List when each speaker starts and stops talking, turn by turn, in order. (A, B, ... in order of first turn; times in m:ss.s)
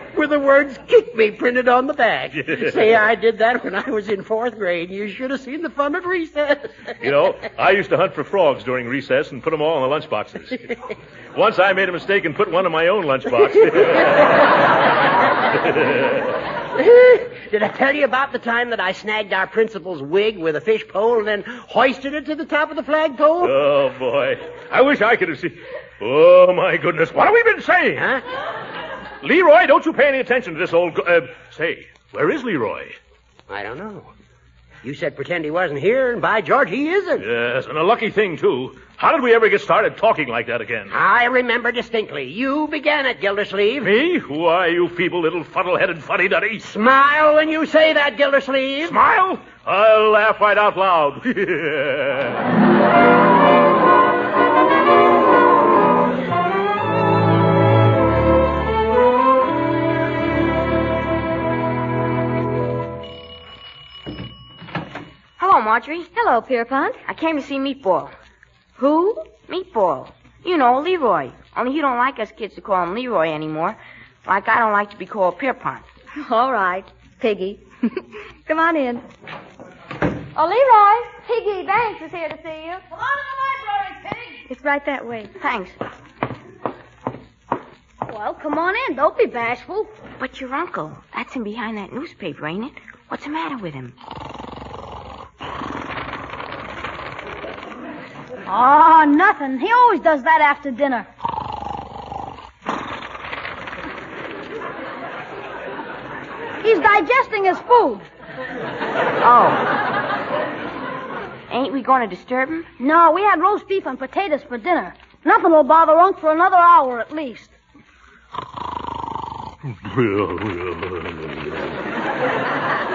0:00.1-0:06.9 A
0:02.4-0:02.8 B
0:07.0-0:10.8 B
0:11.4-0:14.4 B
0:15.6-0:16.2 B
0:16.8-0:23.6 A
0:23.4-0:28.1 B
0:28.0-0:28.2 A
0:29.2-0:33.0 B
0:33.5-0:34.1 A
0:34.8-0:37.3 A
0:37.2-0:41.0 B
0:40.9-0:43.9 A
0:43.8-0:46.7 B
0:46.6-0:49.0 A
0:48.8-0:52.4 B
1:05.4-1:06.1 C
1:06.1-1:07.0 D
1:07.1-1:08.1 C
1:08.8-1:09.3 D
1:09.4-1:15.9 C
1:16.2-1:19.0 D
1:20.4-1:22.8 D
1:22.9-1:24.4 E
1:24.5-1:25.3 D
1:25.4-1:25.8 C
1:28.0-1:29.9 E
1:30.2-1:33.9 C
1:38.5-1:41.1 E
1:46.6-1:48.1 E
1:49.2-1:49.7 C
1:51.5-1:52.7 C
1:52.8-1:57.5 E
1:59.7-2:01.6 B